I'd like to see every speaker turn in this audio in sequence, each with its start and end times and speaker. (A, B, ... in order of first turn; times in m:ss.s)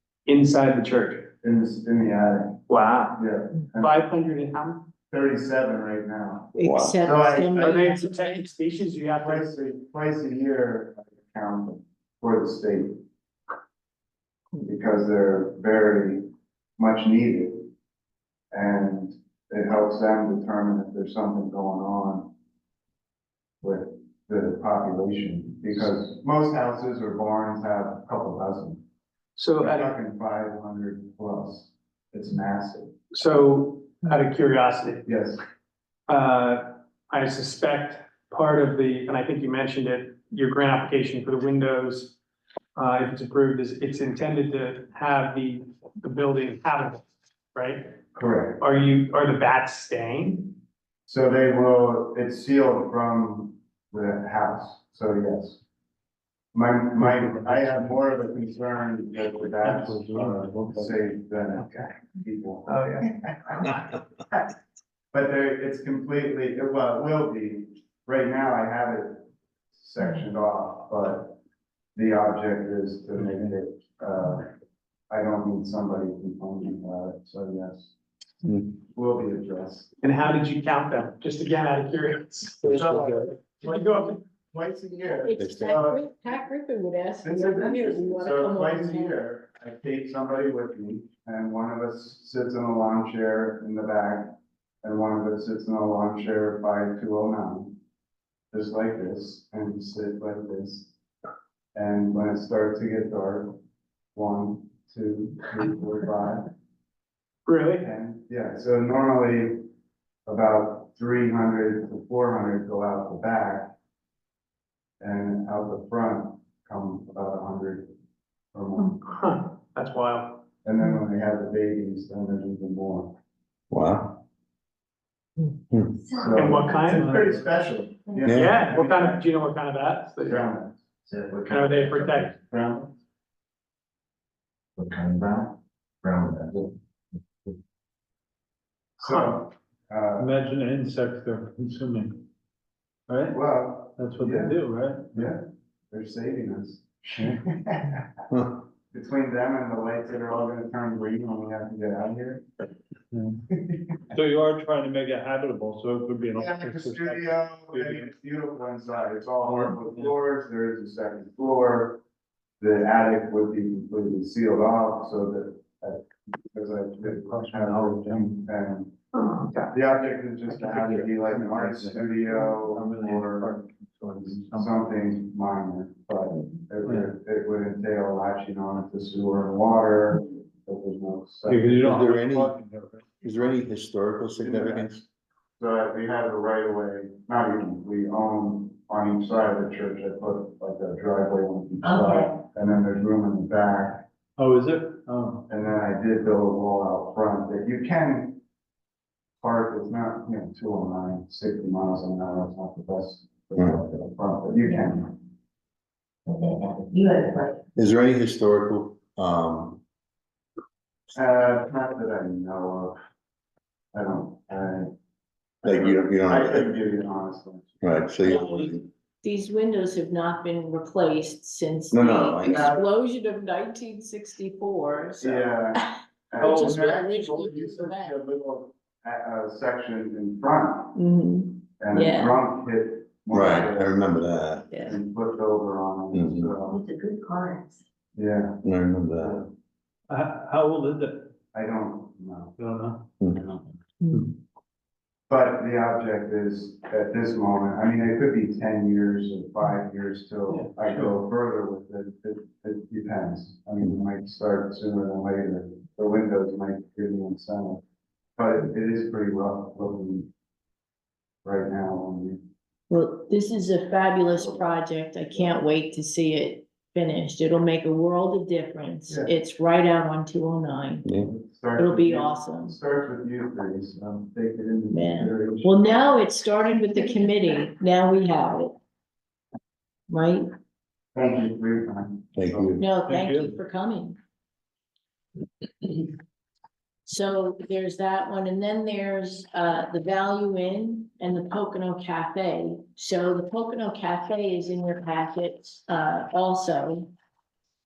0:00.2-0:01.3 A
0:01.4-0:02.6 B
0:02.7-0:03.2 A
0:03.1-0:04.0 B
0:03.8-0:04.8 A
0:05.1-0:07.8 B
0:06.5-0:08.5 C
0:06.6-0:07.0 D
0:07.6-0:09.5 A
0:09.1-0:13.0 B
0:14.6-0:17.7 B
0:18.5-0:22.3 B
0:23.6-0:28.8 B
0:29.4-0:29.9 A
0:29.6-0:33.0 B
0:33.1-0:35.0 A
0:35.0-0:35.4 B
0:36.1-0:42.2 A
0:42.8-0:48.0 A
0:48.1-0:48.6 B
0:48.6-0:50.6 A
0:51.1-0:55.6 B
0:56.5-1:03.8 B
0:57.0-0:58.0 E
0:59.6-1:01.0 E
1:02.7-1:03.0 A
1:05.1-1:11.4 B
1:11.9-1:14.5 B
1:13.2-1:13.5 E
1:15.1-1:17.9 B
1:18.4-1:18.7 D
1:18.8-1:19.9 B
1:20.0-1:22.6 A
1:22.6-1:26.0 B
1:22.6-1:23.4 D
1:23.6-1:24.2 A
1:25.0-1:29.2 C
1:25.4-1:25.9 D
1:27.2-1:37.8 B
1:38.5-1:40.9 B
1:41.7-1:43.6 B
1:44.1-1:46.5 B
1:47.5-1:47.8 A
1:47.8-1:49.6 B
1:50.2-1:53.7 B
1:55.0-1:57.9 B
1:58.5-1:59.0 B
1:58.8-2:00.4 A
2:00.6-2:03.1 B
2:03.7-2:04.2 D
2:05.7-2:06.0 D
2:06.0-2:06.8 F
2:06.1-2:09.2 B
2:06.3-2:07.1 A
2:07.0-2:07.4 E
2:08.2-2:08.5 D
2:08.3-2:10.4 A
2:10.2-2:13.0 B
2:11.5-2:12.3 A
2:14.8-2:16.7 B
2:19.0-2:19.3 A
2:19.0-2:20.3 B
2:20.2-2:22.2 E
2:23.1-2:23.4 E
2:23.3-2:24.6 B
2:24.0-2:25.3 E
2:25.1-2:28.1 B
2:28.3-2:28.6 D
2:28.9-2:32.5 B
2:33.1-2:33.4 E
2:33.6-2:34.1 B
2:34.1-2:38.1 E
2:36.4-2:42.0 B
2:39.4-2:40.1 E
2:42.6-2:48.9 B
2:47.0-2:48.4 E
2:49.1-2:49.7 A
2:49.7-3:01.7 B
2:50.5-2:50.9 A
2:50.7-2:54.7 E
2:56.8-2:57.1 E
3:01.4-3:03.2 E
3:01.8-3:02.6 D
3:03.2-3:05.0 D
3:04.4-3:05.1 B
3:05.6-3:14.0 B
3:11.8-3:12.3 F
3:14.4-3:15.4 E
3:15.5-3:18.4 B
3:19.4-3:25.2 B
3:23.6-3:23.8 D
3:26.3-3:27.6 F
3:27.8-3:29.8 D
3:31.1-3:33.0 B
3:33.9-3:34.9 B
3:35.6-3:36.7 D
3:35.6-3:37.7 B
3:37.8-3:38.9 D
3:38.4-3:38.7 E
3:39.2-3:48.2 C
3:41.9-3:42.7 D
3:42.4-3:42.8 B
3:45.2-3:51.0 B
3:46.5-3:46.8 E
3:50.9-3:52.4 C
3:51.8-3:54.2 B
3:53.3-3:54.7 D
3:54.8-3:56.8 B
3:56.1-3:56.5 D
3:56.7-3:57.8 F
3:58.1-3:58.6 B
3:58.6-3:59.5 D
3:59.2-3:59.5 B
4:00.1-4:01.3 E
4:01.5-4:02.6 B
4:02.6-4:03.1 E
4:03.3-4:03.7 B
4:05.3-4:17.8 B
4:10.5-4:11.1 E
4:18.4-4:20.3 B
4:21.4-4:22.4 B
4:22.9-4:31.1 C
4:24.3-4:24.7 B
4:25.3-4:25.6 B
4:29.1-4:29.3 B
4:31.2-4:35.8 B
4:31.7-4:32.8 C
4:34.9-4:38.7 C
4:40.1-4:40.5 C
4:41.1-4:42.8 B
4:42.4-4:42.8 D
4:42.8-4:44.2 C
4:43.0-4:43.6 E
4:47.0-4:57.1 C